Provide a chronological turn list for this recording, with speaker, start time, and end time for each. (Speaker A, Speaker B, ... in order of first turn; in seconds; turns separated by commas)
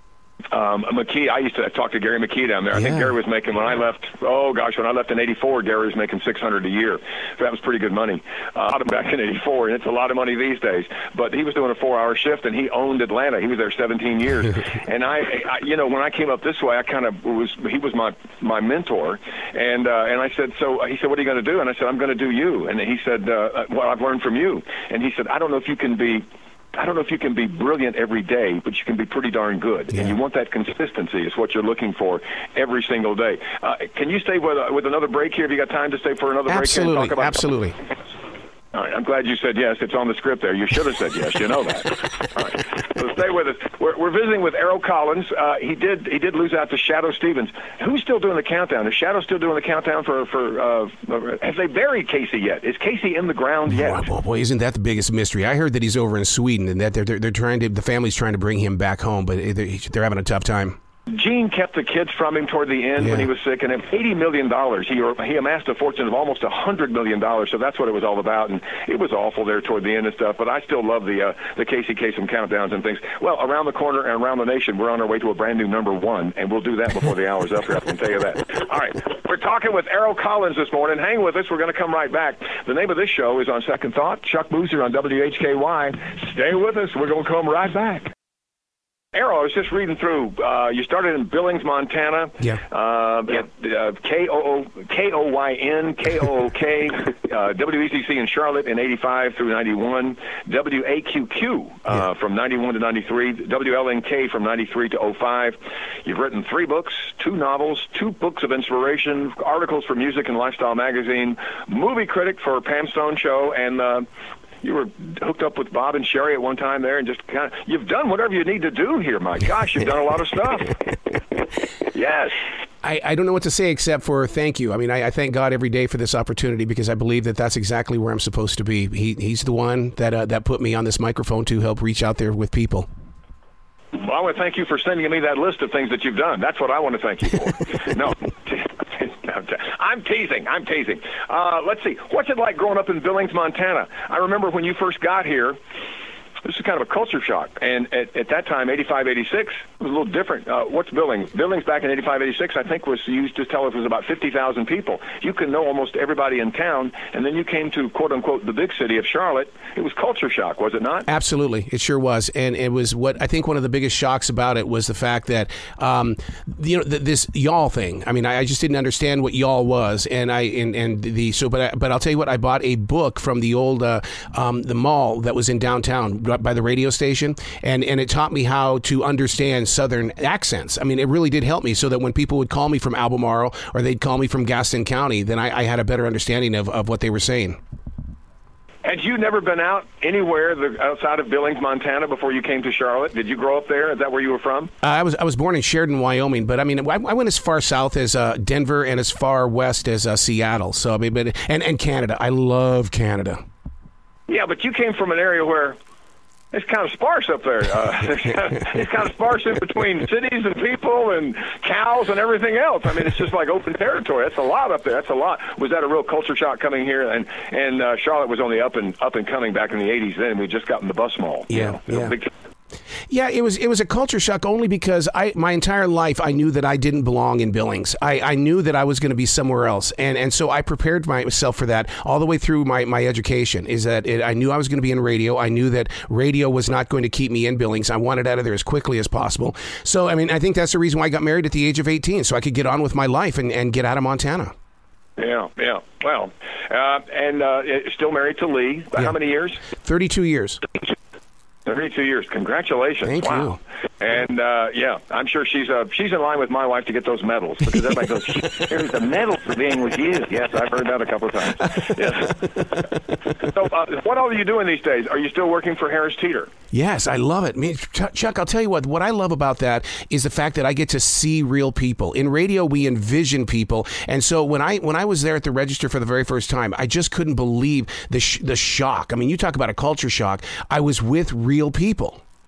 Speaker A: 0.5-37.5, Speaker B: 2.7-3.1, Speaker B: 36.5-37.8, Speaker A: 38.7-54.1, Speaker B: 53.7-60.8, Speaker A: 61.1-88.1, Speaker B: 63.0-63.3, Speaker A: 89.1-114.1, Speaker A: 114.6-120.8, Speaker A: 121.8-122.4, Speaker B: 122.8-132.9, Speaker A: 133.9-145.6, Speaker A: 146.4-161.1, Speaker B: 161.1-187.6, Speaker A: 188.8-194.7, Speaker B: 194.8-203.4, Speaker A: 204.3-205.8, Speaker A: 206.5-222.3, Speaker B: 221.5-222.2, Speaker B: 223.1-244.5, Speaker A: 245.2-249.6, Speaker B: 249.8-250.6, Speaker A: 251.7-262.8, Speaker B: 253.1-253.6, Speaker A: 263.4-266.5, Speaker B: 266.7-282.2